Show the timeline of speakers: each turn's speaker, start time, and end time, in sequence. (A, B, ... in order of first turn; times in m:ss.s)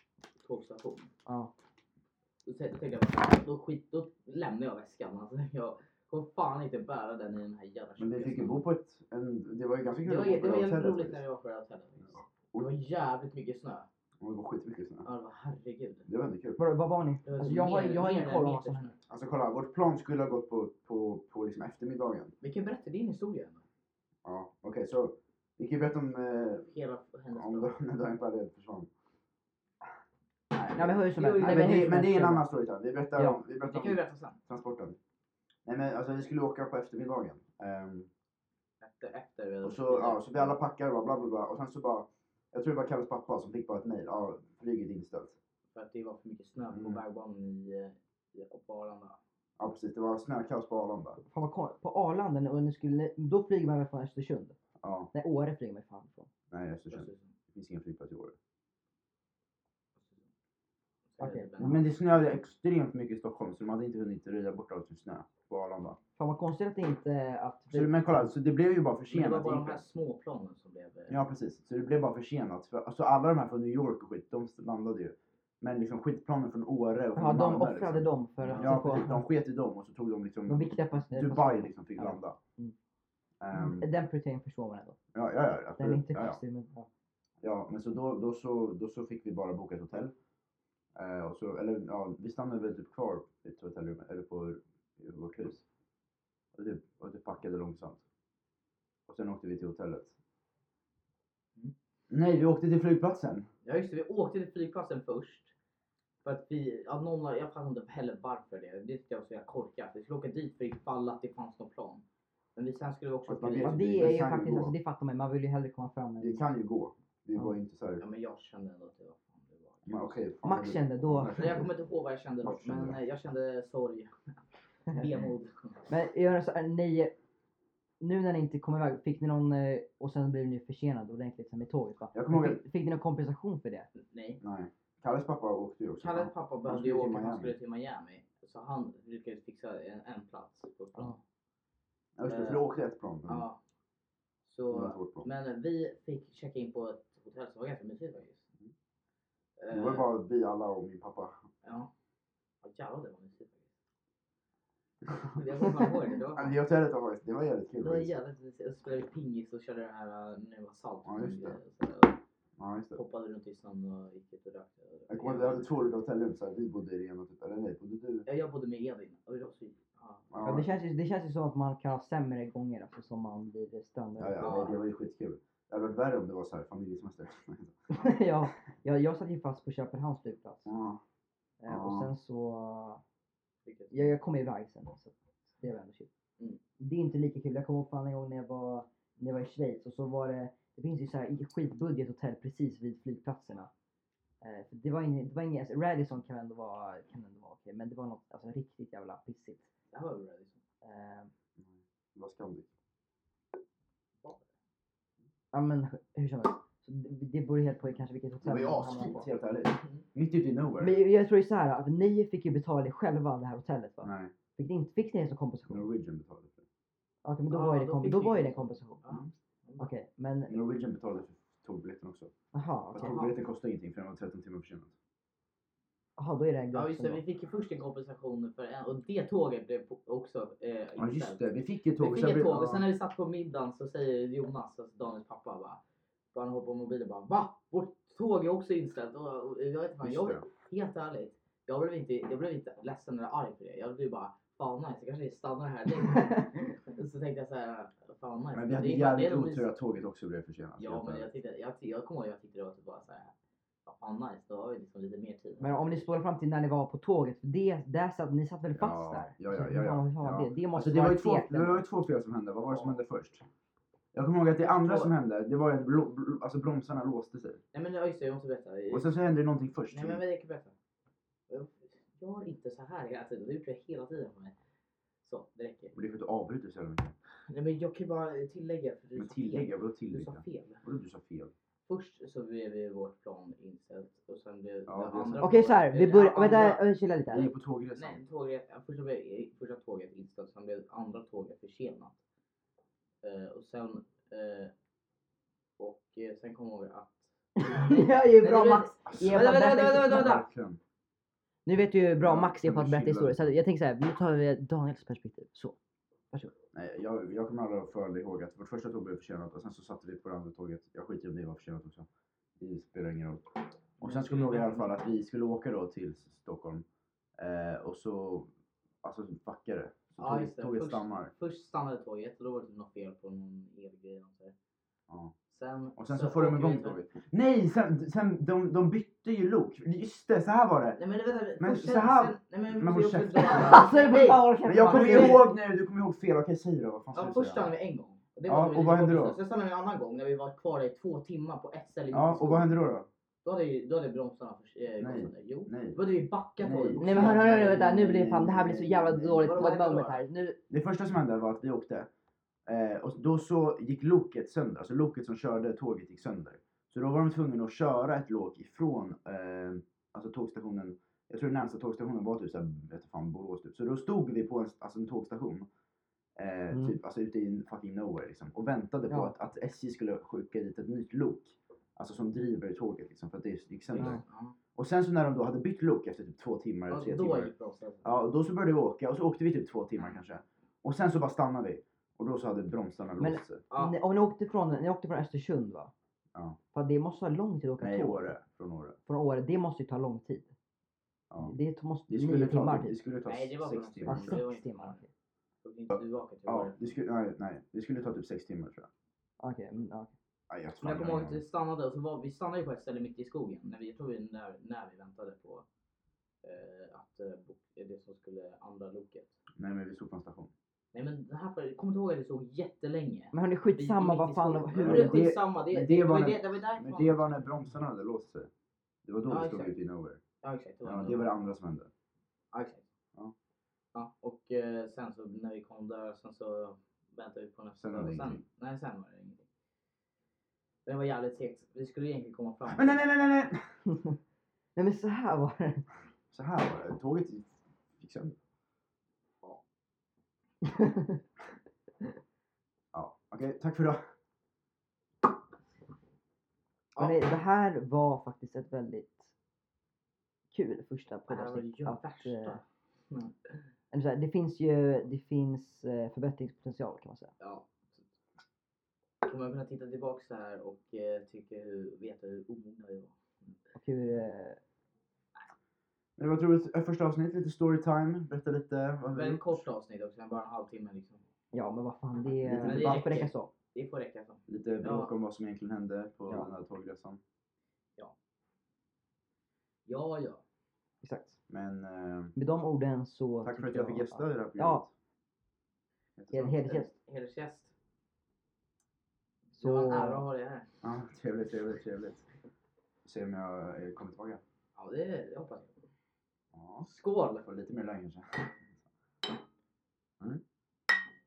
0:00.4-0:01.1 A
0:01.2-0:01.5 B
0:02.4-0:08.6 A
0:08.0-0:11.2 C
0:10.0-0:13.9 A
0:12.1-0:12.7 C
0:14.2-0:15.1 C
0:15.0-0:16.1 A
0:16.1-0:16.6 C
0:16.6-0:18.9 B
0:17.2-0:19.0 A
0:19.1-0:22.3 C
0:22.4-0:23.6 A
0:24.2-0:26.7 C
0:26.6-0:27.7 A
0:27.3-0:28.9 C
0:30.5-0:35.0 C
0:30.7-0:32.4 B
0:31.1-0:31.9 A
0:33.6-0:34.4 A
0:35.6-0:38.1 C
0:38.8-0:40.6 A
0:39.6-0:45.4 C
0:45.7-0:49.2 A
0:46.7-0:47.0 C
0:49.6-0:51.2 C
0:51.3-0:54.6 B
0:54.8-0:55.1 C
0:55.1-0:56.3 B
0:56.5-0:58.4 C
0:56.9-0:57.3 A
1:00.0-1:00.2 A
1:01.1-1:01.9 A
1:01.2-1:01.8 B
1:01.6-1:06.0 C
1:06.2-1:08.3 B
1:07.7-1:09.8 C
1:09.1-1:11.2 A
1:11.1-1:22.4 C
1:17.2-1:19.2 B
1:18.4-1:18.7 A
1:20.5-1:22.7 B
1:23.4-1:23.9 C
1:23.5-1:25.0 B
1:25.1-1:26.4 C
1:25.8-1:26.9 B
1:27.4-1:30.1 C
1:30.9-1:35.6 C
1:36.5-1:38.0 C
1:39.1-1:40.1 C
1:42.1-1:43.5 C
1:43.6-1:45.5 A
1:46.2-1:52.0 A
1:52.6-1:54.2 A
1:53.3-1:54.7 C
1:53.6-1:56.4 B
1:56.2-1:58.0 C
1:58.0-2:00.2 A
1:59.9-2:01.7 C
2:00.4-2:01.4 B
2:01.3-2:05.9 A
2:02.4-2:03.0 C
2:05.9-2:07.1 B
2:08.0-2:13.9 B
2:12.1-2:12.6 C
2:14.0-2:14.4 A
2:14.4-2:17.6 C
2:16.0-2:21.2 A
2:22.2-2:23.5 C
2:22.2-2:22.6 A
2:23.3-2:23.6 A
2:24.4-2:28.4 A
2:24.7-2:25.2 C
2:29.6-2:30.1 A
2:29.7-2:31.4 C
2:31.6-2:31.9 A
2:32.6-2:33.7 A
2:35.1-2:35.4 C
2:35.2-2:36.6 A
2:36.3-2:38.1 C
2:37.8-2:42.2 A
2:41.0-2:41.6 C
2:42.6-2:43.0 C
2:43.0-2:45.8 A
2:45.1-2:48.2 C
2:48.2-2:50.3 A
2:50.3-2:50.7 C
2:50.4-2:54.7 B
2:54.2-2:57.8 C
2:54.4-2:54.8 A
2:57.9-3:00.7 B
3:00.6-3:01.0 C
3:01.6-3:03.0 B
3:01.7-3:02.1 C
3:03.6-3:04.1 A
3:03.9-3:06.1 B
3:06.8-3:13.7 B
3:14.4-3:19.7 B
3:19.9-3:20.6 A
3:20.8-3:21.3 B
3:21.6-3:22.7 C
3:25.5-3:29.2 B
3:28.4-3:31.0 C
3:30.8-3:35.9 B
3:34.0-3:34.3 C
3:35.7-3:36.6 C
3:37.2-3:39.0 B
3:37.5-3:39.9 A
3:39.8-3:40.6 B
3:40.5-3:42.3 C
3:42.5-3:43.2 B
3:42.9-3:44.9 C
3:43.0-3:43.4 A
3:46.2-3:47.2 B
3:46.7-3:51.4 A
3:51.0-3:52.9 C
3:52.0-3:55.8 A
3:56.3-4:09.7 A
4:00.0-4:00.4 C
4:08.5-4:11.3 C
4:10.8-4:13.3 A
4:13.8-4:16.1 A
4:15.6-4:21.8 B
4:18.7-4:23.4 C
4:22.7-4:23.0 A
4:24.1-4:27.6 C
4:24.6-4:25.1 A
4:27.7-4:29.2 A
4:28.9-4:30.2 C
4:29.9-4:30.7 A
4:31.5-4:34.6 A
4:35.2-4:35.9 A
4:35.9-4:37.2 C
4:37.5-4:40.8 A
4:39.2-4:41.5 C
4:41.9-4:52.2 A
4:44.9-4:45.6 C
4:45.4-4:47.5 B
4:47.3-4:48.2 C
4:53.2-4:54.7 A
4:55.8-5:00.4 A
4:57.6-5:00.4 B
4:59.0-5:00.8 C
5:01.6-5:05.8 B
5:02.2-5:03.5 C
5:06.7-5:12.1 C
5:12.6-5:16.8 C
5:14.0-5:14.9 A
5:17.4-5:18.5 C
5:19.0-5:21.3 C
5:20.2-5:24.6 A
5:25.1-5:25.3 C
5:25.5-5:27.0 A
5:26.0-5:31.0 C
5:31.0-5:35.5 A
5:31.6-5:37.7 C
5:33.5-5:35.4 B
5:37.1-5:42.8 A
5:38.4-5:39.4 C
5:42.1-5:43.1 C
5:43.4-5:47.6 A
5:45.0-5:46.0 C
5:46.6-5:49.5 C
5:47.0-5:50.6 B
5:49.4-5:50.2 A
5:50.7-5:52.1 C
5:52.6-6:05.7 C
6:06.4-6:14.2 C
6:13.9-6:14.6 A
6:14.7-6:17.5 C
6:16.9-6:18.1 A
6:18.0-6:23.6 C
6:23.2-6:25.9 B
6:23.7-6:24.0 A
6:26.7-6:28.3 B
6:27.8-6:29.0 C
6:29.1-6:30.5 B
6:31.3-6:31.6 C
6:31.4-6:32.9 B
6:32.1-6:34.4 C
6:33.3-6:35.0 A
6:34.1-6:35.1 B
6:35.6-6:37.0 A
6:35.9-6:38.9 C
6:39.4-6:40.1 B
6:40.5-6:41.4 C
6:40.8-6:45.6 A
6:46.4-6:49.4 A
6:49.6-6:50.5 C
6:50.9-6:57.3 A
6:53.3-6:55.2 B
6:54.8-6:58.5 C
6:59.0-7:00.2 C
6:59.3-6:59.8 A
7:00.4-7:01.3 A
7:00.8-7:01.9 C
7:02.5-7:02.9 A
7:03.9-7:09.4 A
7:07.8-7:08.4 C
7:10.9-7:13.0 A
7:12.7-7:13.6 C
7:13.9-7:14.2 B
7:14.8-7:15.8 B
7:16.3-7:18.4 C
7:20.6-7:21.2 B
7:22.9-7:24.0 C
7:26.9-7:27.2 A
7:27.0-7:29.3 B
7:30.5-7:32.6 B
7:31.3-7:33.6 A
7:33.9-7:37.3 B
7:37.4-7:38.1 A
7:39.2-7:43.5 A
7:43.7-7:44.6 B
7:46.2-7:49.6 C
7:49.1-7:51.2 A
7:51.5-7:53.5 B
7:52.4-7:53.1 C
7:52.6-7:55.1 A
7:54.5-7:57.2 C
7:59.9-8:00.4 A
8:01.0-8:01.4 B
8:01.5-8:02.3 C
8:02.4-8:04.8 B
8:03.4-8:04.9 C
8:06.2-8:06.6 C
8:06.3-8:06.9 B
8:06.6-8:07.7 A
8:09.5-8:10.7 A
8:09.6-8:10.2 B
8:10.8-8:12.2 C
8:13.0-8:14.4 C
8:14.8-8:15.8 A
8:16.5-8:16.9 C
8:16.8-8:17.4 A
8:17.4-8:18.7 C